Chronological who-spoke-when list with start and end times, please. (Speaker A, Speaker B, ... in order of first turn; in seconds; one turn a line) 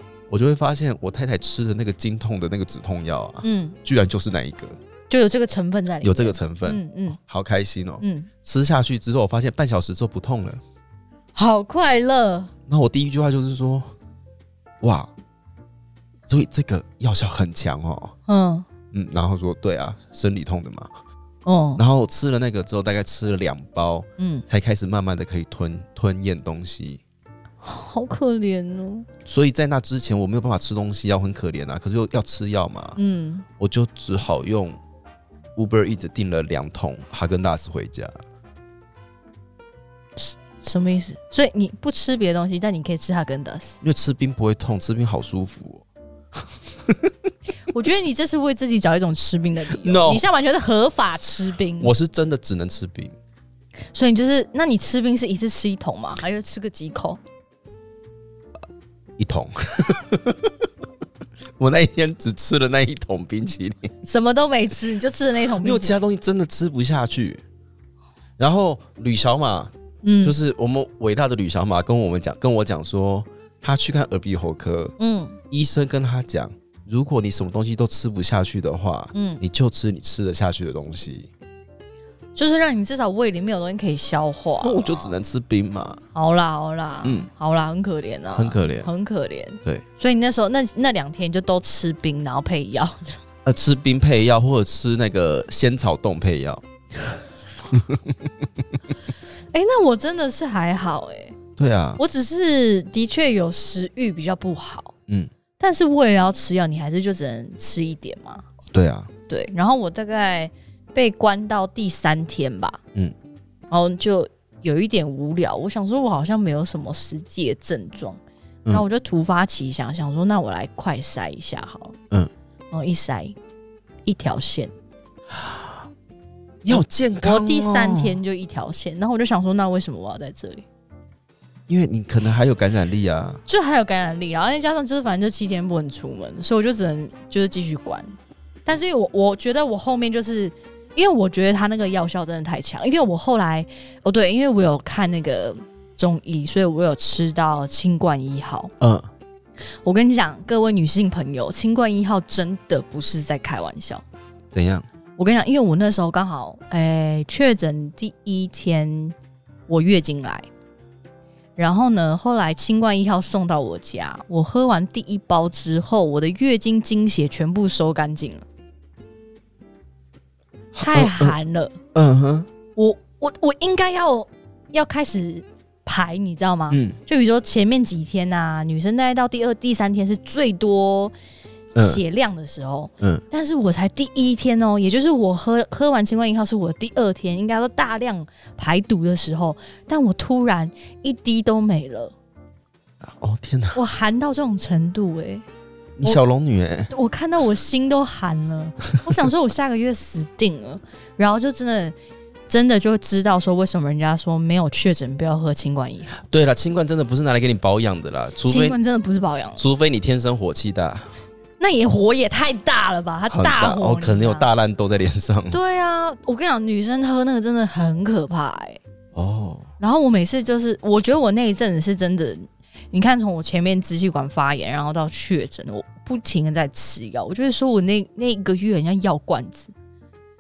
Speaker A: 0.3-4.8
Speaker B: 3.4-3.8
Speaker B: 5.1-7.2
Speaker A: 6.0-10.6
Speaker B: 8.0-8.3
Speaker B: 11.3-12.5
Speaker A: 12.7-13.9
Speaker A: 14.8-15.1
Speaker A: 16.3-18.1
Speaker B: 18.3-18.7
Speaker A: 18.9-20.9
Speaker B: 21.4-21.8
Speaker A: 21.8-27.0
Speaker B: 24.2-24.4
Speaker B: 27.6-29.1
Speaker A: 29.3-33.0
Speaker B: 33.0-33.5
Speaker A: 33.6-34.8
Speaker A: 35.6-38.2
Speaker B: 40.2-43.8
Speaker A: 43.8-45.8
Speaker A: 46.8-47.1
Speaker B: 47.7-51.9
Speaker A: 49.8-50.2
Speaker A: 51.8-53.1
Speaker B: 53.9-57.2
Speaker A: 59.2-60.5
Speaker A: 61.6-63.9
Speaker B: 64.0-66.0
Speaker A: 65.6-67.4
Speaker A: 68.4-75.0
Speaker B: 70.0-70.4
Speaker B: 75.0-75.4
Speaker A: 75.5-81.3
Speaker B: 79.1-79.4
Speaker B: 82.4-85.2
Speaker A: 84.6-86.0
Speaker B: 86.1-93.2
Speaker A: 88.3-88.9
Speaker A: 93.5-96.6
Speaker A: 97.7-98.3
Speaker B: 99.5-101.4
Speaker A: 101.6-102.0
Speaker B: 102.0-104.9
Speaker B: 105.6-108.5
Speaker A: 108.7-109.1
Speaker B: 109.3-112.8
Speaker B: 113.7-122.0
Speaker B: 122.7-123.4
Speaker B: 124.1-124.7
Speaker A: 125.3-125.8
Speaker A: 126.6-128.2
Speaker B: 126.7-130.7
Speaker A: 131.7-133.4
Speaker B: 133.5-138.1
Speaker B: 138.7-148.7
Speaker A: 148.8-149.1
Speaker B: 149.8-154.0
Speaker A: 154.5-154.9
Speaker B: 155.2-159.2
Speaker B: 159.7-160.5
Speaker B: 161.6-168.4
Speaker A: 170.7-171.3
Speaker B: 170.8-171.8
Speaker A: 171.9-172.5
Speaker B: 172.8-181.1
Speaker A: 176.7-177.0
Speaker B: 181.7-192.1
Speaker A: 193.0-193.8
Speaker B: 193.7-195.4
Speaker A: 196.0-196.9
Speaker B: 196.9-201.9
Speaker B: 202.5-206.2
Speaker A: 206.2-208.8
Speaker B: 208.4-209.6
Speaker A: 209.6-211.1
Speaker B: 211.6-214.5
Speaker A: 213.3-215.6
Speaker B: 215.5-218.8
Speaker A: 219.1-219.7
Speaker B: 219.8-229.7